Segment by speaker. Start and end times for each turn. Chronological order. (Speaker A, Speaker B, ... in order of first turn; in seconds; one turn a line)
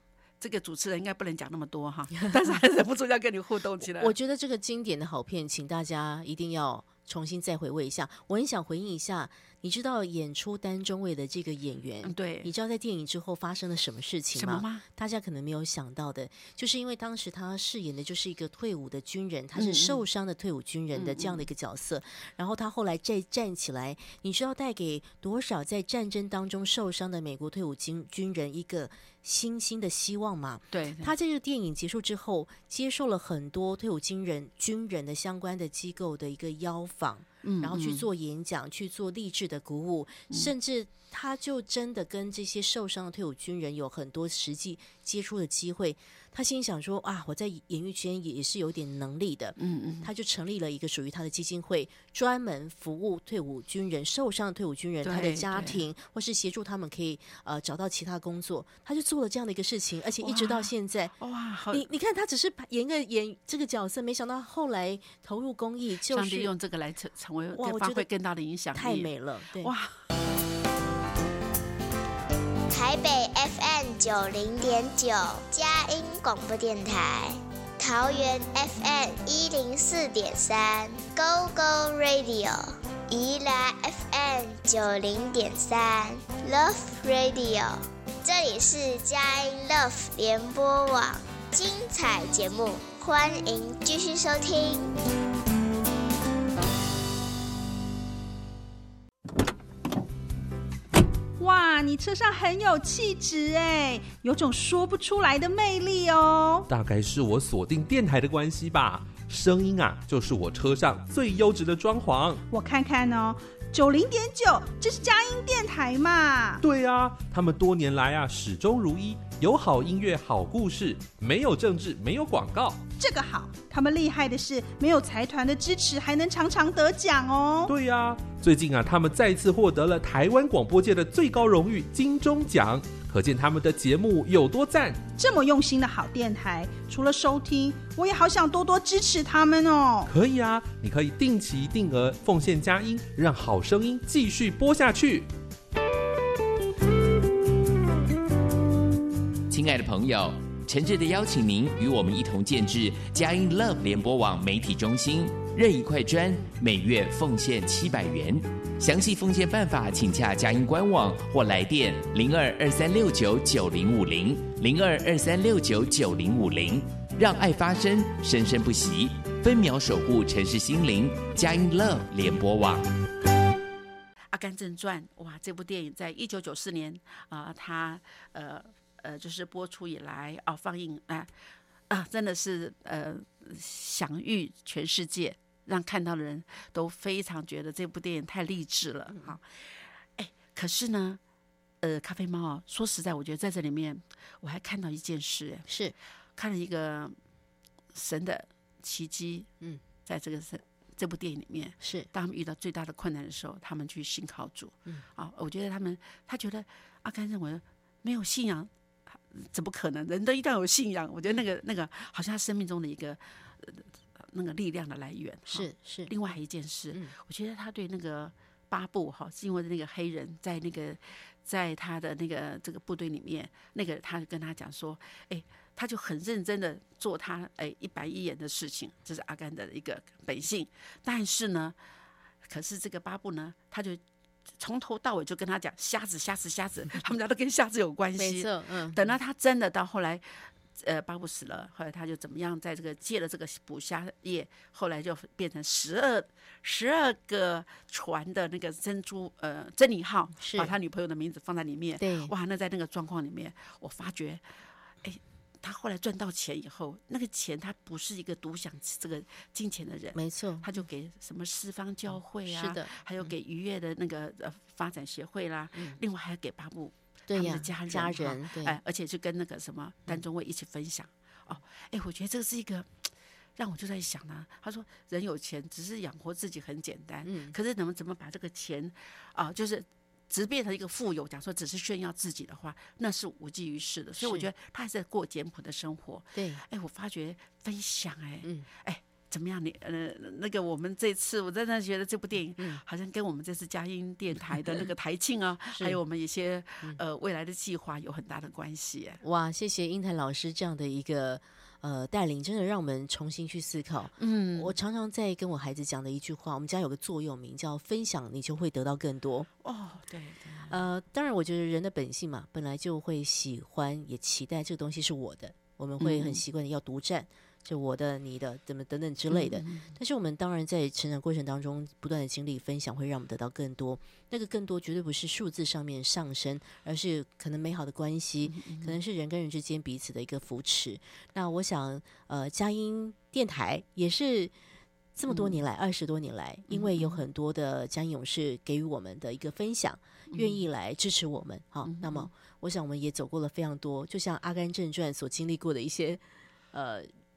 Speaker A: 0.4-4.1
Speaker B: 3.9-61.1
Speaker A: 12.0-12.5
Speaker A: 14.3-14.8
Speaker A: 19.6-20.0
Speaker A: 20.9-21.4
Speaker A: 30.7-31.1
Speaker A: 37.4-38.1
Speaker A: 49.6-50.1
Speaker A: 55.0-55.8
Speaker A: 60.2-61.9
Speaker B: 61.7-66.5
Speaker A: 66.1-70.0
Speaker B: 67.5-68.0
Speaker B: 68.7-69.7
Speaker C: 72.7-94.9
Speaker D: 101.4-106.7
Speaker E: 106.7-112.4
Speaker D: 112.5-116.6
Speaker E: 116.6-122.8
Speaker D: 123.0-127.7
Speaker E: 127.7-135.0
Speaker D: 135.2-140.1
Speaker E: 140.1-145.3
Speaker F: 149.5-172.9
Speaker A: 174.3-181.3
Speaker A: 181.9-191.2
Speaker A: 191.8-195.7
Speaker B: 195.7-195.9
Speaker A: 196.3-197.2
Speaker A: 197.9-199.5
Speaker A: 200.1-208.7
Speaker B: 201.8-202.1
Speaker A: 209.3-231.8
Speaker B: 215.5-216.1
Speaker A: 232.5-234.0
Speaker A: 234.6-254.4
Speaker B: 238.2-239.0
Speaker B: 250.4-250.7
Speaker B: 252.0-252.3
Speaker A: 255.0-299.2
Speaker B: 260.1-260.7
Speaker B: 262.4-263.3
Speaker B: 267.3-268.8
Speaker B: 277.2-277.5
Speaker B: 284.2-284.5
Speaker B: 286.3-286.6
Speaker B: 295.7-296.0
Speaker B: 299.2-309.5
Speaker A: 304.2-304.7
Speaker A: 309.6-310.8
Speaker B: 310.7-334.5
Speaker A: 316.0-316.4
Speaker A: 319.3-319.9
Speaker A: 328.5-328.9
Speaker B: 335.1-346.2
Speaker A: 335.3-335.6
Speaker A: 336.7-337.2
Speaker A: 340.3-340.6
Speaker A: 341.8-342.3
Speaker B: 346.7-347.1